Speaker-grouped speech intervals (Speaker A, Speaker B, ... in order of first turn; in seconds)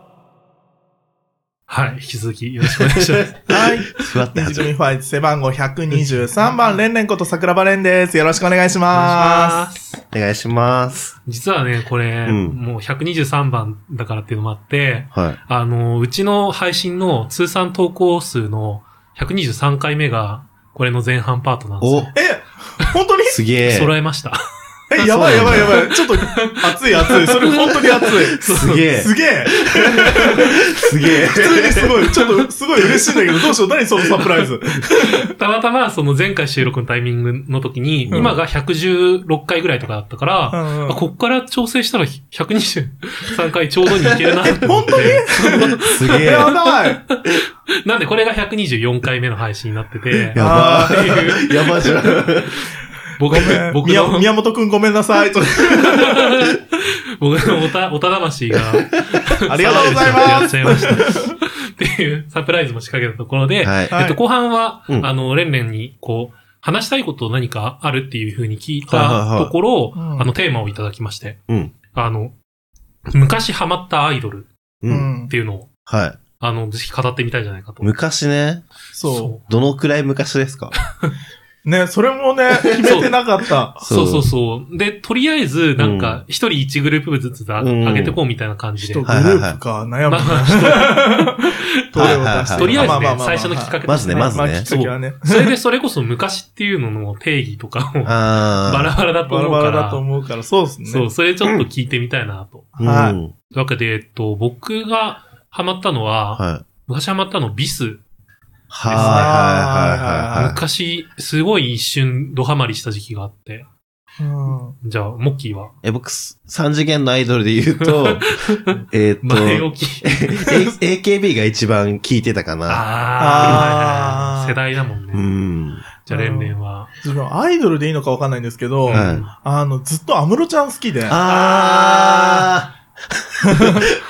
Speaker A: 1.7-3.4, 6.1-6.5, 8.9-10.0, 11.3-22.1, 23.7-24.4, 25.1-28.9, 34.9-51.9, 53.2-54.3, 55.8-71.4, 71.9-72.4, 73.1-74.5, 75.3-75.7, 76.4-77.9, 79.0-79.4, 82.8-83.1, 83.8-89.1, 90.1-100.0, 100.9-102.7, 103.5-108.0, 108.8-109.3, 110.3-113.7, 114.8-115.7, 117.8-120.5, 122.7-125.3, 126.0-126.9, 128.9-129.3, 131.3-132.4
Speaker B: 2.8-4.7, 10.1-11.1, 12.2-12.6, 15.1-15.4, 21.8-22.1, 23.3-23.9, 25.0-25.8, 28.4-32.0, 38.1-38.4, 44.5-44.9, 45.8-46.5, 50.3-52.6, 63.6-63.9, 68.9-69.5, 71.5-71.7, 74.8-75.1, 75.9-76.2, 77.8-78.7, 79.5-80.7, 83.8-84.2, 85.8-86.2, 87.6-88.2, 89.0-89.6, 92.0-93.2, 93.9-94.7, 98.0-98.9, 102.8-103.3, 106.4-106.6, 108.7-110.6, 115.8-122.9, 123.4-123.7, 125.1-125.8, 128.9-129.3, 131.1-133.9
Speaker C: 3.5-9.7, 22.1-23.4, 24.9-30.5, 31.2-35.3, 40.5-41.0, 44.4-47.0, 50.3-51.3, 53.3-56.3, 59.5-61.3, 63.9-64.2, 70.0-70.3, 74.9-75.3, 78.9-79.3, 81.6-83.9, 88.8-95.5, 99.2-101.1, 102.8-103.2, 108.9-110.5, 114.2-114.8, 123.2-124.6, 126.1-131.2, 133.5-133.9